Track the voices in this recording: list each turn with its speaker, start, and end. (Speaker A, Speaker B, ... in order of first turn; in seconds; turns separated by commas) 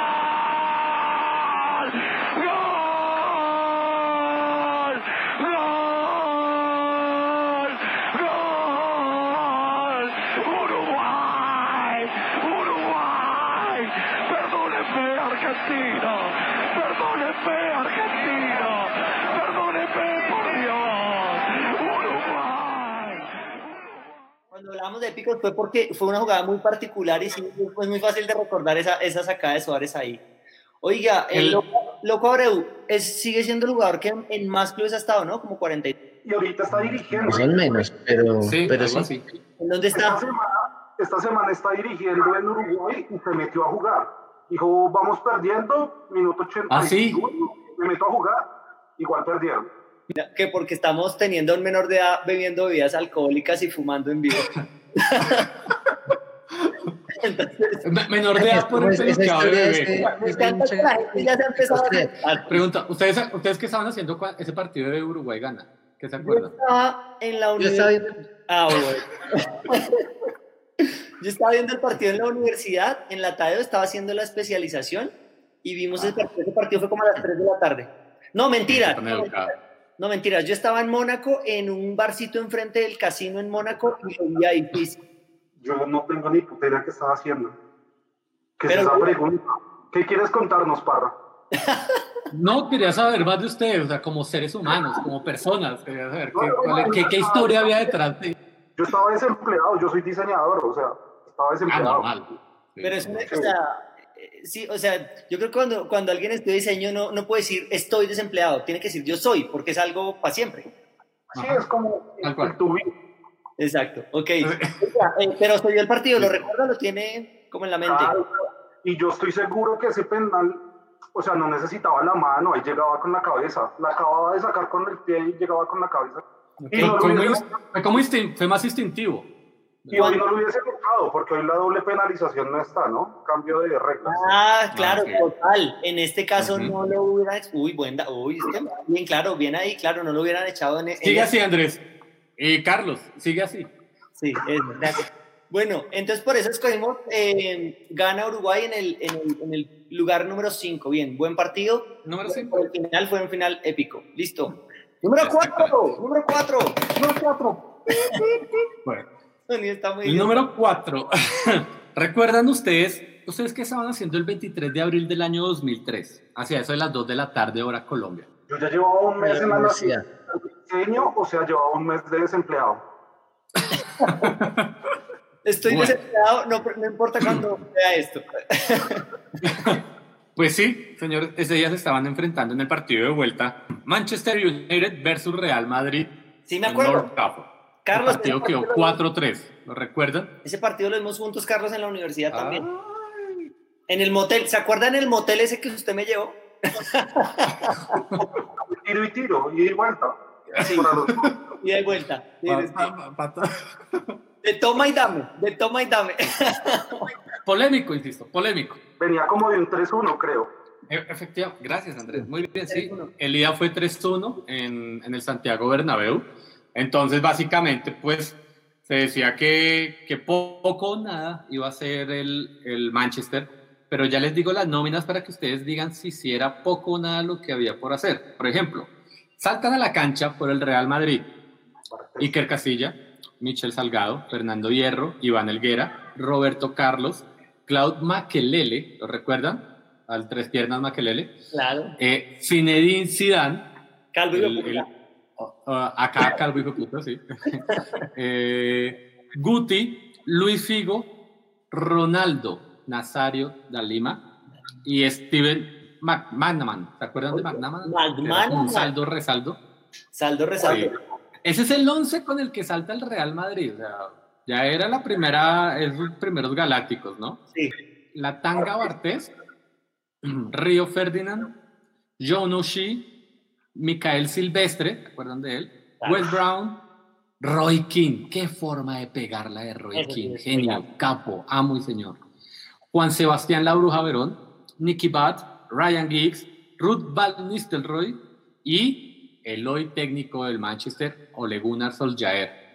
Speaker A: 1.4-23.3, Speaker B: 24.5-30.2, Speaker B: 30.8-36.0, Speaker C: 31.3-31.6, Speaker D: 36.2-37.6, Speaker E: 36.7-39.1, Speaker C: 38.4-39.3, Speaker B: 39.6-40.2, Speaker D: 39.9-49.7, Speaker C: 46.7-47.2, Speaker B: 50.1-54.5, Speaker B: 55.0-55.5, Speaker C: 56.6-56.9, Speaker B: 57.1-57.8, Speaker C: 57.8-60.0, Speaker E: 58.4-62.1, Speaker B: 59.9-62.6, Speaker C: 62.5-66.5, Speaker B: 66.2-67.9, Speaker E: 67.6-68.1, Speaker B: 68.5-69.9, Speaker B: 71.2-75.1, Speaker B: 75.6-85.0, Speaker C: 76.0-76.2, Speaker C: 78.7-79.5, Speaker D: 85.6-87.5, Speaker D: 88.6-91.2, Speaker B: 88.7-89.1, Speaker B: 91.5-92.0, Speaker C: 92.3-98.3, Speaker D: 96.3-97.6, Speaker D: 98.8-102.1, Speaker C: 101.7-103.2, Speaker B: 102.8-110.7, Speaker D: 103.3-103.5, Speaker C: 111.3-111.6, Speaker D: 111.3-112.9, Speaker C: 112.2-112.5, Speaker B: 113.6-118.2, Speaker C: 114.4-114.7, Speaker D: 117.8-120.6, Speaker D: 121.1-127.5, Speaker C: 126.6-129.3, Speaker C: 129.8-130.1, Speaker D: 129.9-134.3, Speaker B: 129.9-130.2, Speaker B: 134.1-141.3, Speaker C: 134.7-135.2, Speaker C: 136.4-136.7, Speaker C: 141.0-141.8, Speaker C: 142.4-143.7, Speaker B: 144.2-157.0, Speaker C: 152.0-152.6, Speaker C: 155.2-155.8, Speaker D: 157.0-158.3, Speaker B: 157.6-158.2, Speaker B: 159.5-160.4, Speaker C: 160.0-168.3, Speaker D: 168.5-172.8, Speaker E: 169.2-170.0, Speaker C: 173.6-174.7, Speaker B: 174.0-174.3, Speaker B: 175.4-179.0, Speaker C: 175.7-175.9, Speaker C: 179.4-179.8, Speaker C: 180.3-186.1, Speaker B: 186.5-187.1, Speaker C: 186.7-190.3, Speaker B: 187.8-189.0, Speaker B: 190.4-192.7, Speaker C: 192.3-193.5, Speaker B: 193.9-197.9, Speaker D: 198.2-201.4, Speaker C: 200.7-201.3, Speaker B: 201.6-202.9, Speaker C: 202.5-204.2, Speaker B: 204.4-207.1, Speaker C: 207.4-208.8, Speaker D: 209.0-210.5, Speaker C: 210.9-231.3, Speaker B: 212.7-213.1, Speaker D: 231.9-232.3, Speaker C: 232.2-241.3, Speaker B: 241.5-241.9, Speaker C: 242.0-243.7, Speaker B: 244.1-244.9, Speaker C: 244.3-244.8, Speaker C: 245.4-247.6, Speaker C: 248.1-251.1, Speaker C: 251.7-254.2, Speaker C: 254.8-259.6, Speaker B: 257.3-258.9, Speaker B: 260.1-260.9, Speaker C: 260.6-260.9, Speaker C: 261.4-267.4, Speaker C: 268.1-269.3, Speaker C: 270.2-271.5, Speaker C: 272.2-273.1, Speaker C: 273.7-276.8, Speaker B: 276.0-276.3, Speaker C: 277.4-282.2, Speaker B: 279.9-280.8, Speaker C: 282.9-292.6